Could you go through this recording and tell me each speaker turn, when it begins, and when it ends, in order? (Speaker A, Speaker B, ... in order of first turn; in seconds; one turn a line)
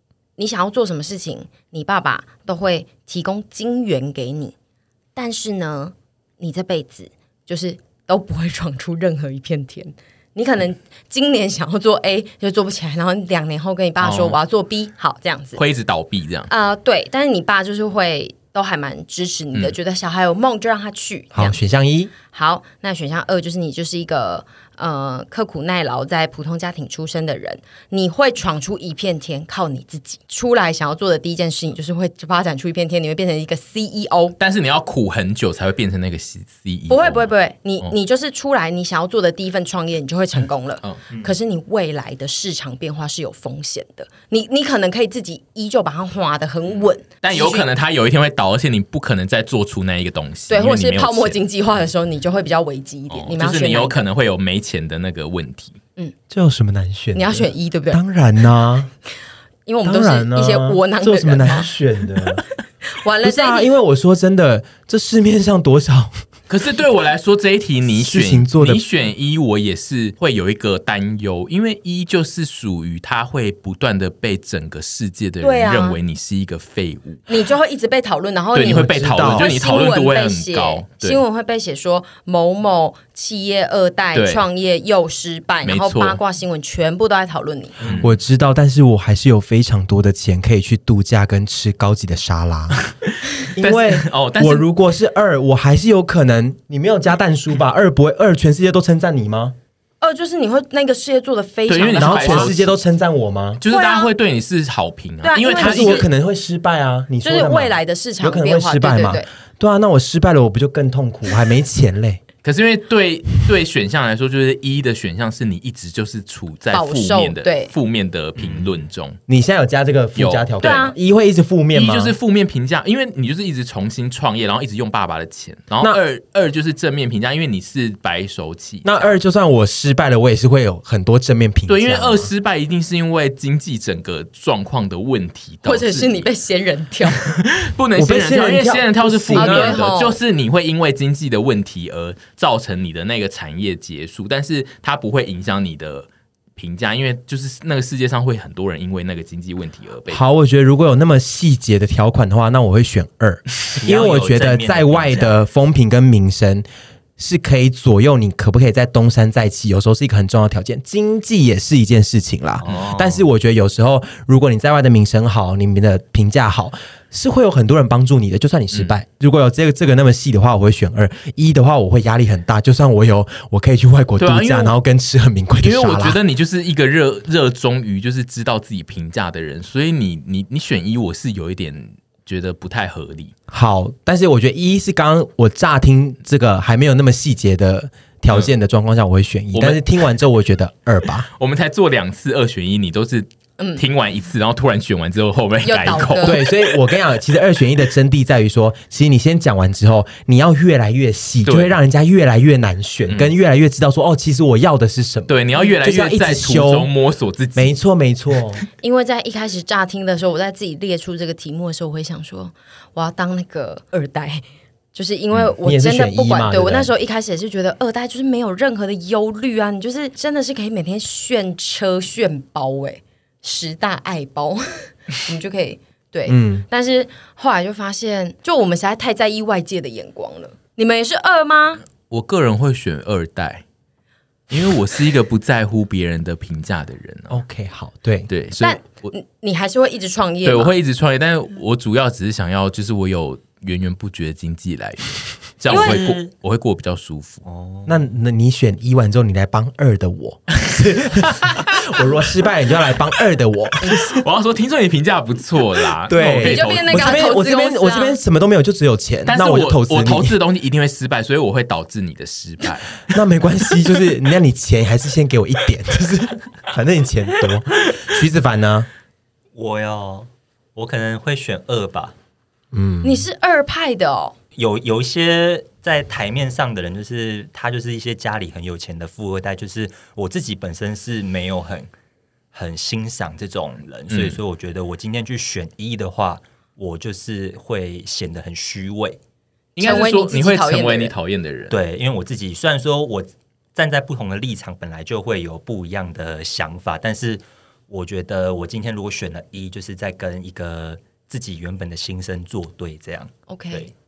Speaker A: 0.4-4.5
Speaker A: 5.1-15.6
Speaker B: 14.0-14.4
Speaker B: 15.6-16.5
Speaker A: 16.5-21.6
Speaker C: 21.3-22.1
Speaker A: 22.2-34.3
Speaker B: 34.4-37.9
Speaker A: 36.9-47.7
Speaker D: 41.1-41.4
Speaker B: 47.2-51.4
Speaker A: 50.5-54.0
Speaker B: 53.1-55.8
Speaker C: 56.3-58.9
Speaker A: 57.1-58.0
Speaker A: 59.6-61.7
Speaker C: 59.8-62.4
Speaker A: 62.9-63.7
Speaker C: 63.2-66.2
Speaker B: 66.5-77.2
Speaker C: 67.9-68.8
Speaker A: 75.4-76.0
Speaker A: 77.3-87.8
Speaker B: 78.5-81.2
Speaker C: 78.6-79.5
Speaker B: 84.1-84.5
Speaker B: 85.6-86.2
Speaker B: 87.8-88.1
Speaker C: 88.0-92.8
Speaker C: 93.5-99.5
Speaker B: 93.6-94.7
Speaker A: 100.0-102.5
Speaker B: 101.7-102.7
Speaker C: 102.0-103.6
Speaker B: 103.6-106.1
Speaker A: 103.7-104.1
Speaker A: 105.2-106.1
Speaker C: 105.6-112.2
Speaker A: 107.2-109.3
Speaker B: 112.4-119.2
Speaker A: 116.7-117.7
Speaker D: 118.3-118.7
Speaker C: 119.3-122.2
Speaker B: 120.2-120.9
Speaker A: 120.6-120.9
Speaker B: 121.7-129.1
Speaker C: 128.8-132.3
Speaker B: 131.7-136.2
Speaker A: 135.6-137.2
Speaker B: 137.3-150.2
Speaker C: 137.9-139.8
Speaker A: 139.3-140.2
Speaker C: 150.1-176.2
Speaker D: 153.8-155.4
Speaker D: 162.6-163.3
Speaker B: 168.7-169.0
Speaker B: 174.2-174.8
Speaker B: 175.6-183.3
Speaker C: 183.5-191.3
Speaker B: 189.5-189.8
Speaker B: 191.3-196.5
Speaker A: 193.6-193.8
Speaker A: 195.6-196.4
Speaker C: 196.2-206.9
Speaker B: 201.4-201.8
Speaker B: 203.1-203.3
Speaker B: 205.3-207.8
Speaker C: 207.6-208.6
Speaker A: 208.8-231.8
Speaker C: 215.6-216.9
Speaker C: 226.3-226.7
Speaker B: 232.1-233.6
Speaker B: 234.5-237.4
Speaker C: 237.3-238.3
Speaker B: 238.3-239.1
Speaker A: 238.6-240.7
Speaker B: 240.4-247.4
Speaker D: 245.7-246.3
Speaker A: 245.7-246.0
Speaker D: 247.4-248.1
Speaker C: 247.9-254.0
Speaker B: 251.3-252.0
Speaker A: 253.8-254.1
Speaker B: 253.9-257.3
Speaker C: 256.1-260.4
Speaker A: 256.4-258.2
Speaker B: 259.2-263.0
Speaker C: 263.1-268.9
Speaker D: 269.5-272.1
Speaker C: 272.7-273.3
Speaker A: 273.0-274.3
Speaker D: 274.6-281.9
Speaker D: 282.5-289.2
Speaker B: 284.1-284.4
Speaker B: 289.8-291.8
Speaker A: 289.8-291.1
Speaker D: 291.7-303.9
Speaker A: 303.5-303.9